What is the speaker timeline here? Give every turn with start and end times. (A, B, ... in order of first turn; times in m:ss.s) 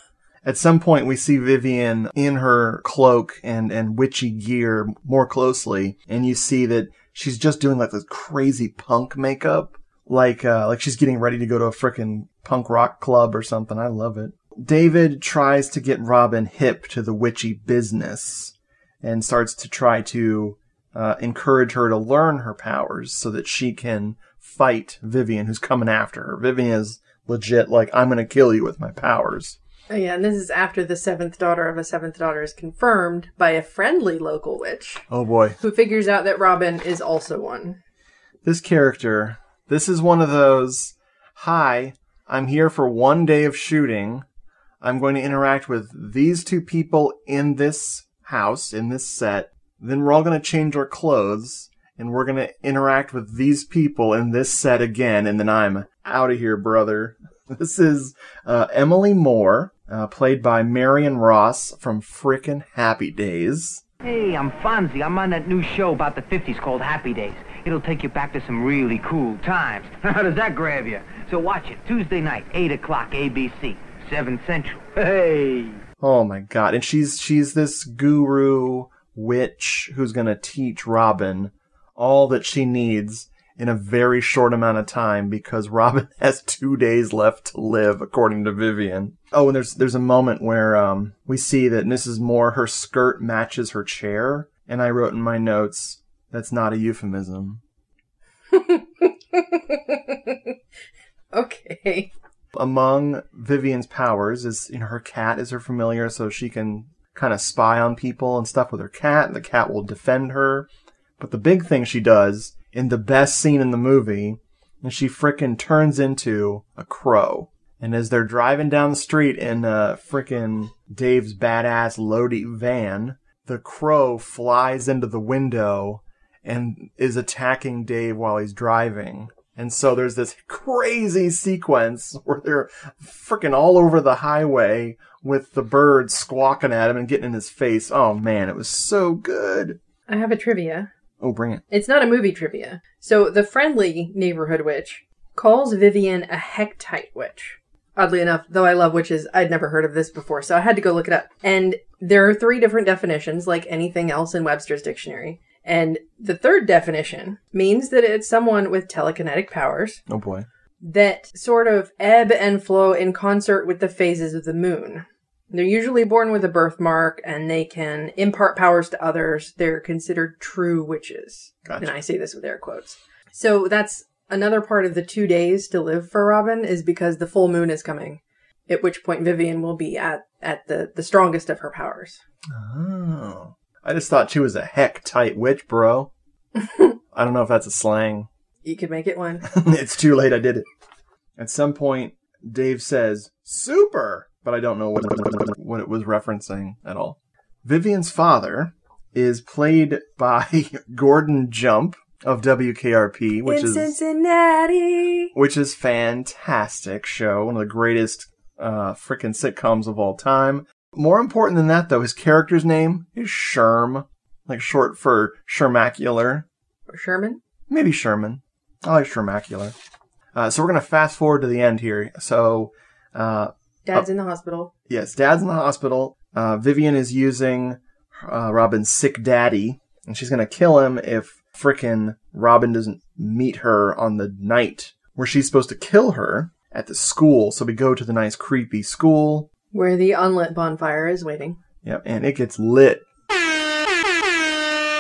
0:00.4-0:29.6 A
0:29.9-0:35.0 B
0:35.1-0:35.6 A
0:35.6-0:37.8 B
0:38.4-0:44.2 A
0:44.8-1:03.8 A
1:04.0-1:15.8 C
1:16.0-1:37.6 A
1:38.5-1:40.5 B
1:41.3-1:42.1 B
1:42.6-1:50.7 A
1:51.2-2:19.8 A
2:20.1-2:20.9 B
2:21.2-2:21.6 A
2:21.7-2:40.0 B
2:40.1-2:40.5 A
2:40.8-3:02.2 B
2:51.6-2:51.9 A
3:02.5-3:06.1 A
3:06.6-3:06.9 B
3:07.1-3:08.3 A
3:08.6-3:09.4 B
3:09.5-3:10.7 A
3:11.4-3:24.0 A
3:23.4-3:25.3 B
3:25.3-3:36.5 A
3:36.9-3:37.4 B
3:37.7-3:39.8 A
3:40.4-3:44.1 A
3:43.8-3:44.7 B
3:44.9-3:59.5 A
3:59.7-4:01.6 B
4:01.8-4:03.0 A